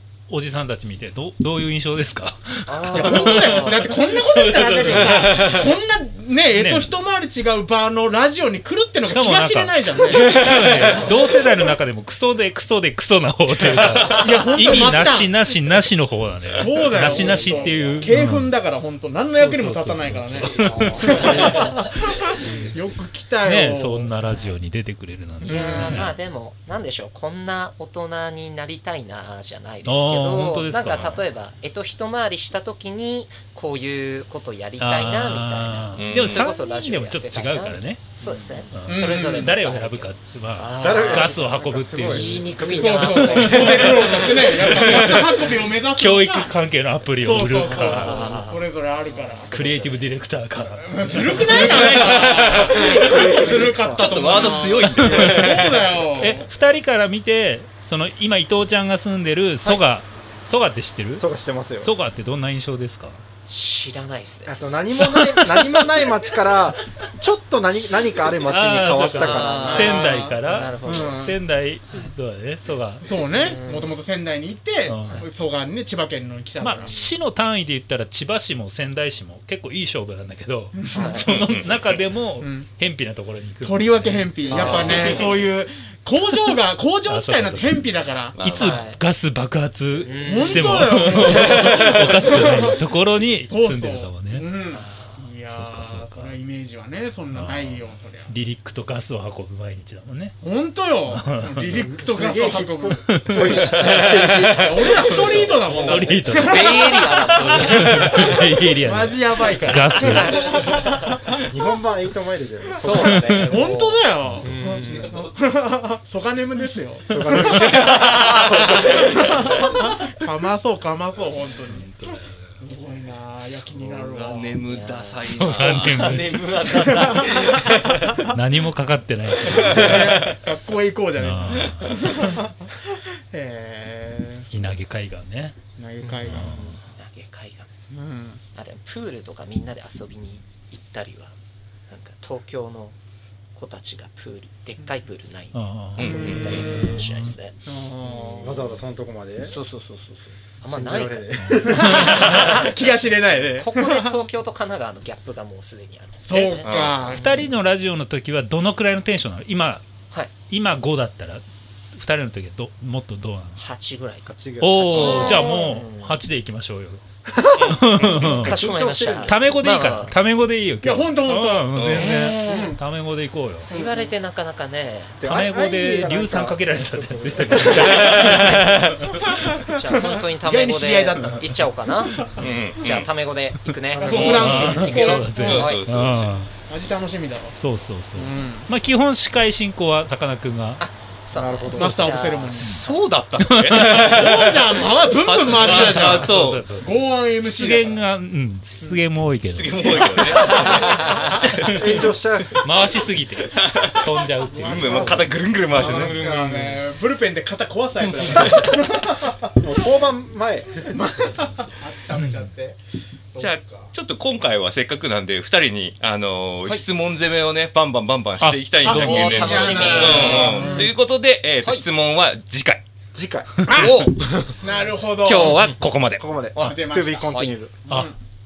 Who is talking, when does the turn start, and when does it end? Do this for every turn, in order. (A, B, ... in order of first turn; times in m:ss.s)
0:00.3-0:05.7 A
0:02.7-0:03.9 B
0:03.0-0:10.4 C
0:05.1-0:05.6 D
0:06.5-0:06.9 A
0:09.0-0:18.5 A
0:10.3-0:11.1 D
0:13.7-0:14.1 D
0:14.1-0:15.4 C
0:16.6-0:24.1 C
0:17.5-0:17.9 B
0:19.3-0:21.7 A
0:20.6-0:21.8 B
0:22.4-0:22.8 A
0:23.4-0:26.2 A
0:24.3-0:24.6 B
0:25.4-0:44.8 B
0:25.5-0:26.0 C
0:29.8-0:31.2 A
0:34.8-0:38.2 A
0:36.0-0:36.5 D
0:38.2-0:38.6 E
0:38.7-0:42.6 A
0:38.9-0:39.5 C
0:40.8-0:43.7 E
0:42.7-0:46.6 C
0:43.4-0:48.4 A
0:47.2-0:49.6 C
0:47.4-0:50.1 B
0:49.5-0:53.5 A
0:50.8-0:56.5 C
0:51.3-0:51.6 E
0:51.5-0:56.1 D
0:52.7-0:54.2 E
0:54.8-1:01.2 A
1:01.2-1:01.9 E
1:01.8-1:03.2 A
1:03.5-1:05.1 B
1:04.5-1:10.0 E
1:05.1-1:06.2 A
1:08.4-1:13.4 A
1:09.1-1:11.3 B
1:09.6-1:11.4 C
1:13.0-1:16.9 C
1:13.3-1:13.9 B
1:14.9-1:15.3 A
1:16.6-1:25.2 A
1:16.8-1:17.1 B
1:20.8-1:21.1 C
1:20.9-1:21.3 B
1:21.1-1:22.2 D
1:22.4-1:22.7 C
1:23.6-1:28.4 C
1:24.5-1:25.4 B
1:24.5-1:25.4 D
1:27.0-1:34.5 A
1:28.4-1:28.8 D
1:28.5-1:29.0 B
1:30.0-1:30.9 B
1:30.3-1:32.8 C
1:31.5-1:32.1 D
1:33.4-1:38.3 C
1:34.8-1:35.3 B
1:35.5-1:36.4 A
1:37.3-1:40.4 A
1:40.4-1:43.0 C
1:41.1-1:41.9 A
1:41.7-1:45.9 E
1:42.9-1:50.6 A
1:43.7-1:44.5 D
1:44.7-1:51.4 C
1:46.3-1:48.1 B
1:50.4-1:51.1 B
1:51.4-1:53.5 E
1:52.8-1:55.2 B
1:52.9-1:53.7 A
1:53.4-2:04.6 C
1:54.2-1:54.5 A
1:57.1-1:58.2 E
2:01.7-2:02.3 A
2:03.4-2:08.2 D
2:04.6-2:06.1 B
2:05.2-2:10.2 A
2:06.4-2:07.9 C
2:09.4-2:10.4 D
2:09.6-2:14.5 C
2:11.2-2:12.2 A
2:14.5-2:15.6 A
2:15.8-2:16.6 C
2:16.0-2:17.7 B
2:16.3-2:16.8 A
2:17.9-2:18.4 C
2:18.5-2:21.3 B
2:21.9-2:23.0 B
2:23.6-2:28.8 B
2:25.5-2:27.3 A
2:26.0-2:26.8 D
2:27.7-2:28.3 C
2:28.4-2:29.6 E
2:29.4-2:32.7 B
2:30.6-2:32.0 E
2:31.6-2:34.2 C
2:31.9-2:32.3 A
2:33.5-2:37.5 B
2:36.2-2:37.3 C
2:36.6-2:37.0 D
2:37.1-2:39.8 A
2:40.5-2:41.4 A
2:41.9-2:43.6 A
2:43.6-2:46.2 B
2:44.3-2:45.3 E
2:44.6-2:47.0 A
2:44.9-2:45.6 D
2:47.3-2:49.4 E
2:47.6-2:48.3 D
2:47.6-2:48.6 A
2:48.3-2:50.2 B
2:49.2-2:53.7 A
2:50.8-2:51.8 C
2:51.7-2:52.2 D
2:51.9-2:52.8 B
2:52.5-2:52.8 C
2:53.6-2:55.2 B
2:53.7-2:54.1 C
2:55.2-2:58.1 E
2:55.2-2:59.3 A
2:57.9-2:58.6 D
2:59.2-3:01.5 C
2:59.7-3:05.9 B
3:02.3-3:03.1 D
3:03.9-3:06.5 A
3:04.0-3:05.6 C
3:04.1-3:06.4 D
3:06.7-3:07.6 C
3:07.5-3:10.8 A
3:08.2-3:08.7 C
3:10.8-3:12.7 B
3:11.3-3:12.3 E
3:11.7-3:12.8 C
3:12.6-3:16.7 D
3:13.4-3:14.3 A
3:14.0-3:18.0 C
3:15.5-3:25.2 A
3:19.4-3:21.5 D
3:20.2-3:21.4 B
3:21.5-3:22.6 E
3:23.4-3:26.7 D
3:24.5-3:25.1 C
3:24.7-3:26.3 E
3:25.8-3:29.4 C
3:25.8-3:26.7 A
3:28.0-3:28.7 D
3:29.4-3:30.9 E
3:30.8-3:32.8 C
3:31.6-3:32.5 A
3:33.3-3:33.9 C
3:33.4-3:42.8 D
3:38.4-3:40.3 A
3:38.8-3:40.7 B
3:39.1-3:40.9 C
3:43.2-3:43.7 E
3:43.6-3:43.9 A
3:43.7-3:46.3 D
3:44.6-3:45.6 C
3:45.6-3:45.8 B
3:46.2-3:47.9 E
3:46.6-3:47.4 C
3:47.2-3:47.6 B
3:47.9-3:48.1 A